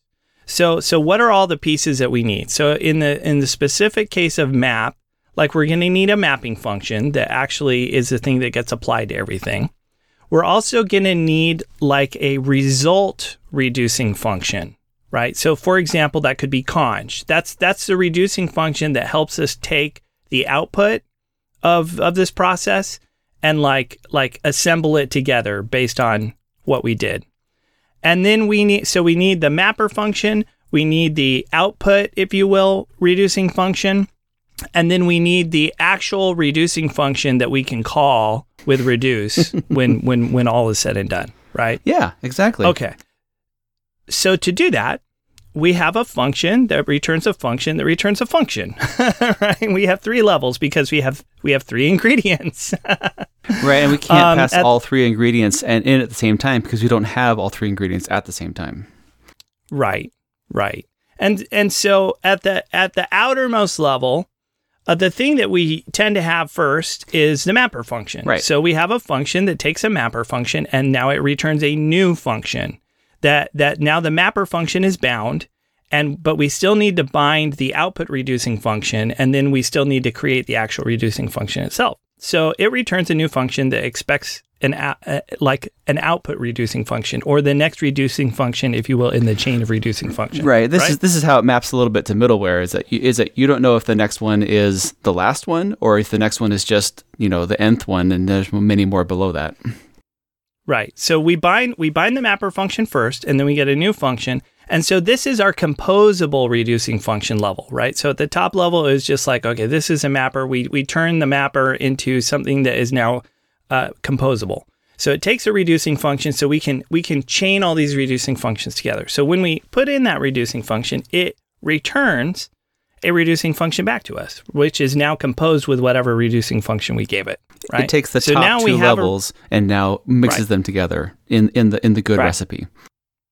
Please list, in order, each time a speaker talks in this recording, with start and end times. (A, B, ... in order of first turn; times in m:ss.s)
0:00.5-0:09.7 A
0:10.3-0:21.0 A
0:21.6-0:27.2 A
0:28.0-0:34.1 A
0:34.7-0:41.8 A
0:41.8-0:42.7 B
0:42.6-0:42.9 A
0:44.1-0:45.0 A
0:45.5-0:54.7 A
0:53.6-0:58.9 B
0:59.7-1:04.3 A
1:04.9-1:31.0 A
1:30.3-1:39.6 B
1:40.7-2:02.5 A
2:03.0-2:09.1 A
2:07.7-2:12.7 B